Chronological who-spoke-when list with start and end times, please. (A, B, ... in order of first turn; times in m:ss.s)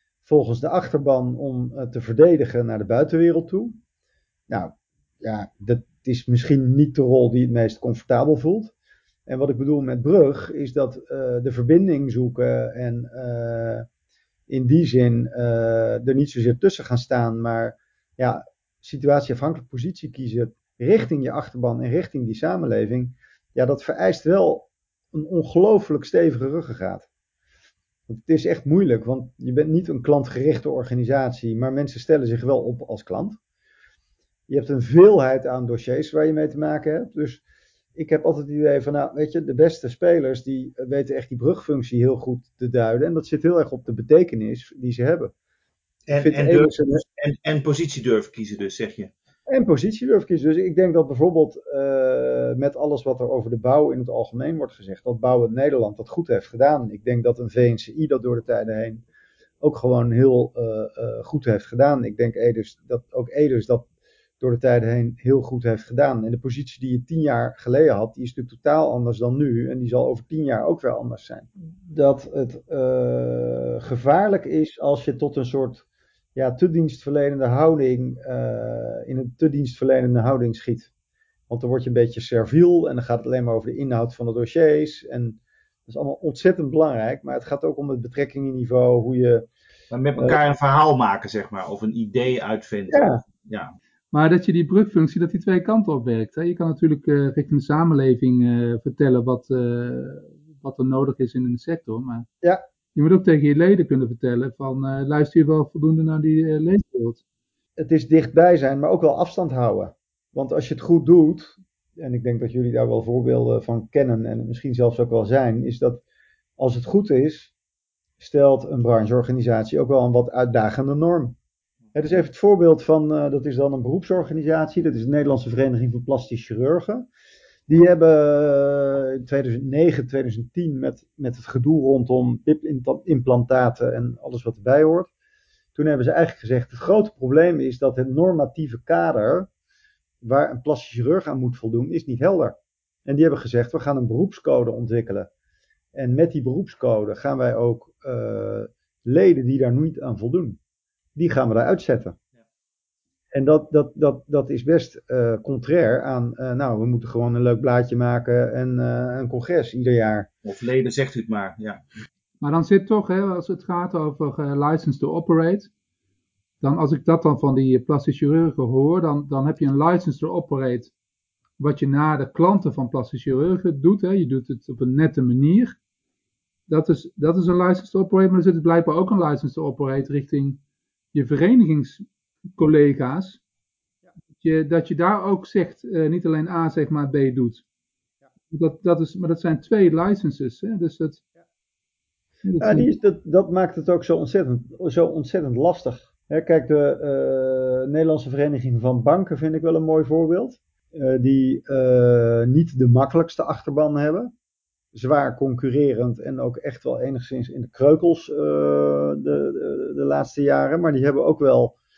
0:00.2-0:03.8 A
0:04.5-0:08.7 A
0:09.3-0:13.9 A
0:14.5-0:27.1 A
0:28.1-0:33.4 A
0:34.5-0:37.4 A
0:38.0-0:45.3 A
0:46.1-0:49.1 B
0:46.2-0:47.0 A
0:49.5-0:59.0 A
0:59.6-1:03.9 A
1:04.4-1:20.9 A
1:21.5-1:29.5 A
1:29.9-1:33.8 B
1:32.9-1:33.2 A
1:34.1-1:42.3 C
1:43.0-1:47.2 C
1:47.8-1:56.0 A
1:56.6-1:57.5 A
1:58.2-2:01.4 A
2:02.0-2:07.1 A
2:07.7-2:15.1 A
2:15.8-2:19.5 A
2:20.2-2:25.3 A
2:26.0-2:30.6 A
2:31.2-2:32.2 A
2:33.3-2:40.3 A
2:40.4-2:41.8 B
2:42.4-2:45.7 C
2:46.6-2:50.9 C
2:51.6-2:55.8 C
2:56.7-3:00.6 C
3:01.1-3:03.4 C
3:04.4-3:07.6 C
3:08.5-3:11.2 C
3:12.4-3:12.9 C
3:12.6-3:24.3 A
3:24.9-3:31.8 A